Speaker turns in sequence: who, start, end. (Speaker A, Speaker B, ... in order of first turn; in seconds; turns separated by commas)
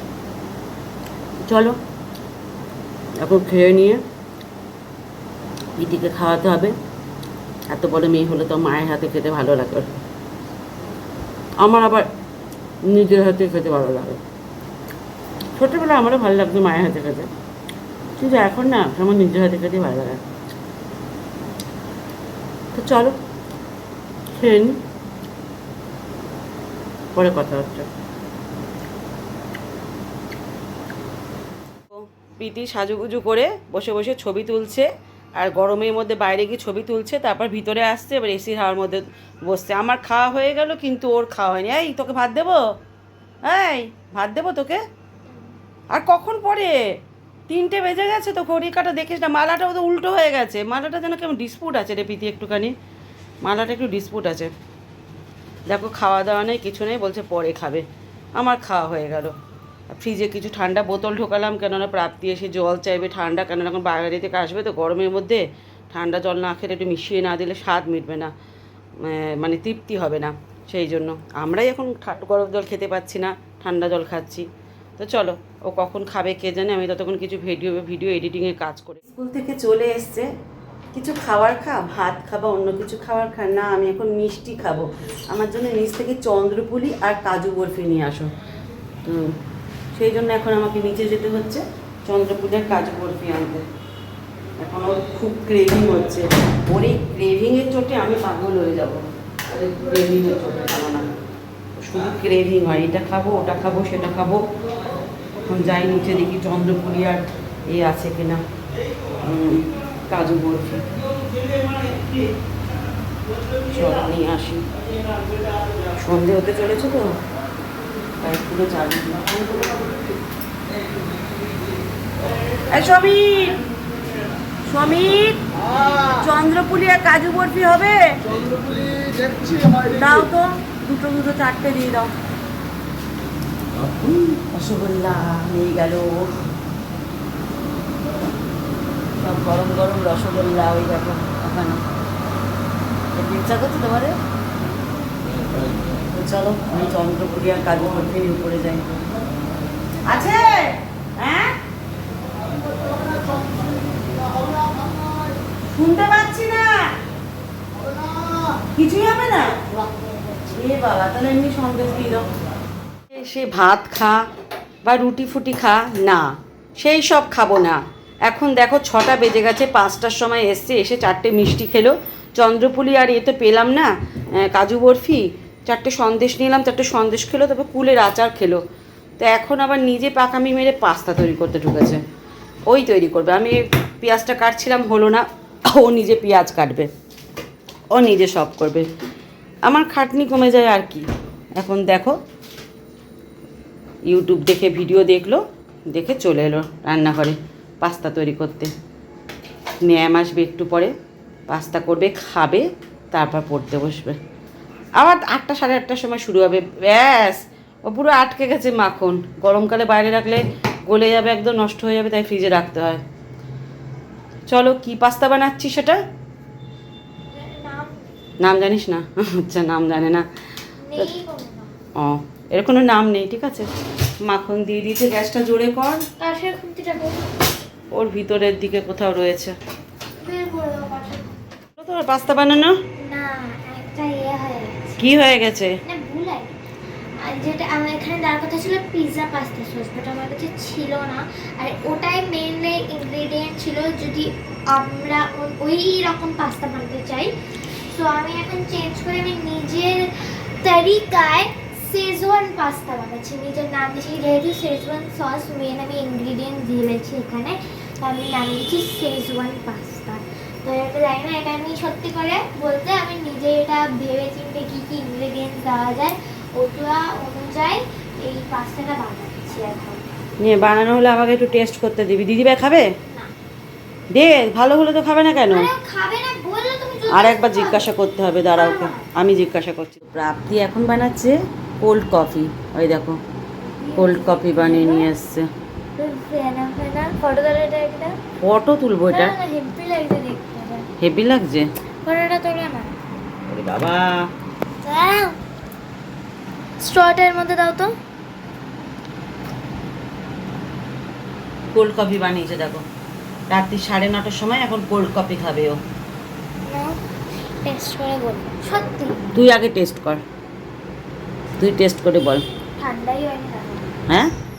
Speaker A: 1.5-1.8, Speaker A: 3.2-4.0, Speaker A: 5.8-6.8, Speaker A: 7.7-9.9, Speaker A: 11.6-12.1, Speaker A: 12.9-14.2, Speaker A: 15.6-17.3, Speaker A: 18.2-20.4, Speaker A: 22.7-23.2, Speaker A: 24.3-24.8, Speaker A: 27.1-27.9, Speaker A: 31.9-42.6, Speaker A: 43.5-44.8, Speaker A: 45.9-46.8, Speaker A: 47.5-52.7, Speaker A: 53.4-54.5, Speaker A: 55.7-57.9, Speaker A: 58.4-59.4, Speaker A: 59.9-68.3, Speaker A: 69.0-74.5, Speaker A: 75.0-80.3, Speaker A: 80.9-88.3, Speaker A: 89.0-89.3, Speaker A: 89.9-93.7, Speaker A: 94.6-101.0, Speaker A: 101.8-104.4, Speaker A: 105.5-108.4, Speaker A: 109.2-110.9, Speaker A: 113.7-114.6, Speaker A: 116.0-117.2, Speaker A: 118.2-119.3, Speaker A: 122.7-123.6, Speaker A: 124.7-128.2, Speaker A: 129.8-132.1, Speaker A: 134.0-136.4, Speaker A: 139.2-141.8, Speaker A: 143.1-144.2, Speaker A: 146.1-148.8, Speaker A: 150.1-151.6, Speaker A: 155.7-156.9, Speaker A: 158.7-159.6, Speaker A: 160.5-162.3, Speaker A: 163.1-164.2, Speaker A: 164.8-178.6, Speaker A: 179.2-182.0, Speaker A: 182.7-186.9, Speaker A: 187.9-188.9, Speaker A: 189.7-192.2, Speaker A: 194.1-198.7, Speaker A: 199.8-200.9, Speaker A: 201.5-204.2, Speaker A: 205.0-213.0, Speaker A: 214.5-216.0, Speaker B: 217.3-218.1, Speaker A: 218.4-220.3, Speaker B: 220.8-221.7, Speaker A: 222.0-223.7, Speaker A: 224.2-226.1, Speaker B: 226.2-227.3, Speaker A: 227.9-229.6, Speaker B: 230.2-231.4, Speaker A: 231.8-232.8, Speaker B: 233.0-235.0, Speaker A: 235.0-235.8, Speaker B: 235.8-236.6, Speaker B: 237.2-270.1, Speaker A: 270.4-272.9, Speaker B: 273.1-273.3, Speaker A: 274.1-275.7, Speaker B: 275.5-277.9, Speaker A: 277.1-283.2, Speaker B: 278.5-279.1, Speaker B: 283.6-285.1, Speaker A: 284.0-285.5, Speaker B: 286.0-288.2, Speaker A: 288.4-289.4, Speaker B: 289.1-290.9, Speaker A: 291.0-291.7, Speaker B: 292.1-293.0, Speaker A: 293.5-294.2, Speaker B: 294.8-295.4, Speaker B: 296.8-297.9, Speaker A: 301.7-302.8, Speaker A: 303.5-305.8, Speaker B: 306.7-307.0, Speaker B: 307.6-309.3, Speaker A: 309.3-310.2, Speaker A: 311.6-312.5, Speaker B: 312.8-313.9